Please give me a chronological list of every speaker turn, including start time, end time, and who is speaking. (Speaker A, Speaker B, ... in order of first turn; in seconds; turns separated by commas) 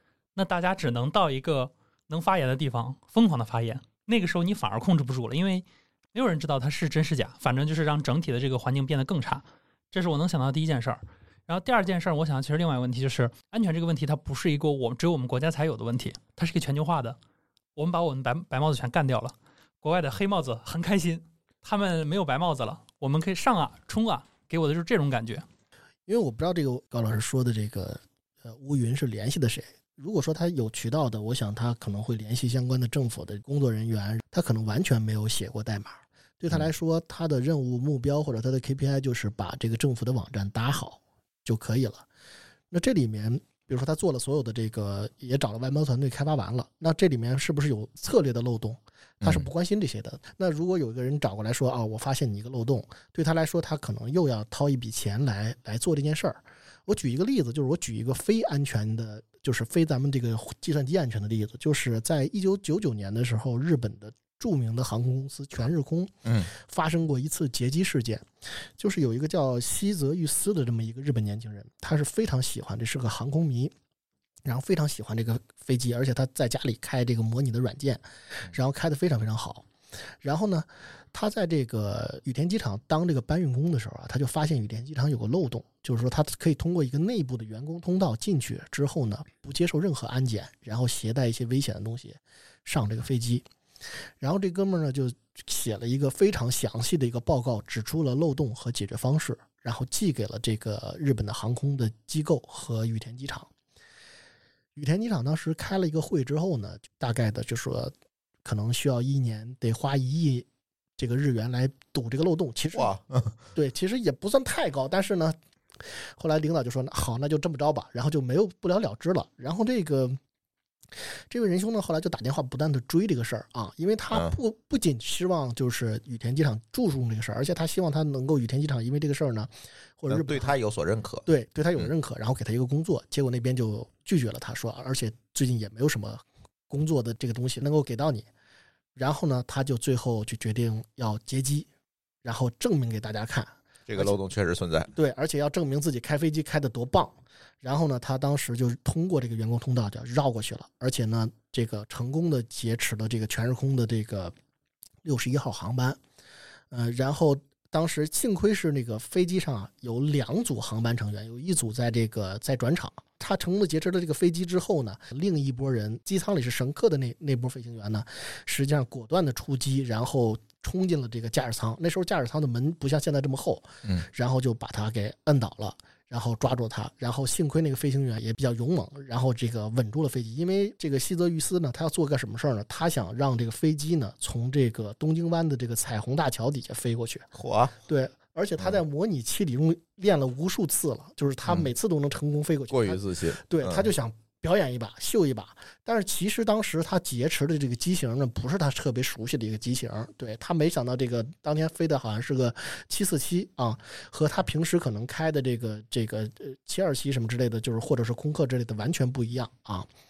Speaker A: 0.3-17.2, Speaker A: 17.8-25.4, Speaker B: 26.1-42.0, Speaker B: 42.7-73.7, Speaker C: 66.2-66.5, Speaker B: 74.4-79.7, Speaker B: 80.2-93.4, Speaker B: 94.2-103.5, Speaker B: 104.7-107.9, Speaker B: 108.4-110.5, Speaker B: 111.0-112.9, Speaker C: 112.7-113.4, Speaker B: 113.5-120.2, Speaker B: 121.3-130.5, Speaker C: 124.1-124.3, Speaker C: 130.1-131.2, Speaker B: 131.2-138.3, Speaker B: 138.9-141.7, Speaker B: 142.2-144.1, Speaker C: 143.9-144.9, Speaker B: 144.9-154.3, Speaker B: 155.0-156.0, Speaker B: 156.7-187.3, Speaker C: 187.3-187.7, Speaker B: 187.8-209.9, Speaker C: 192.7-193.9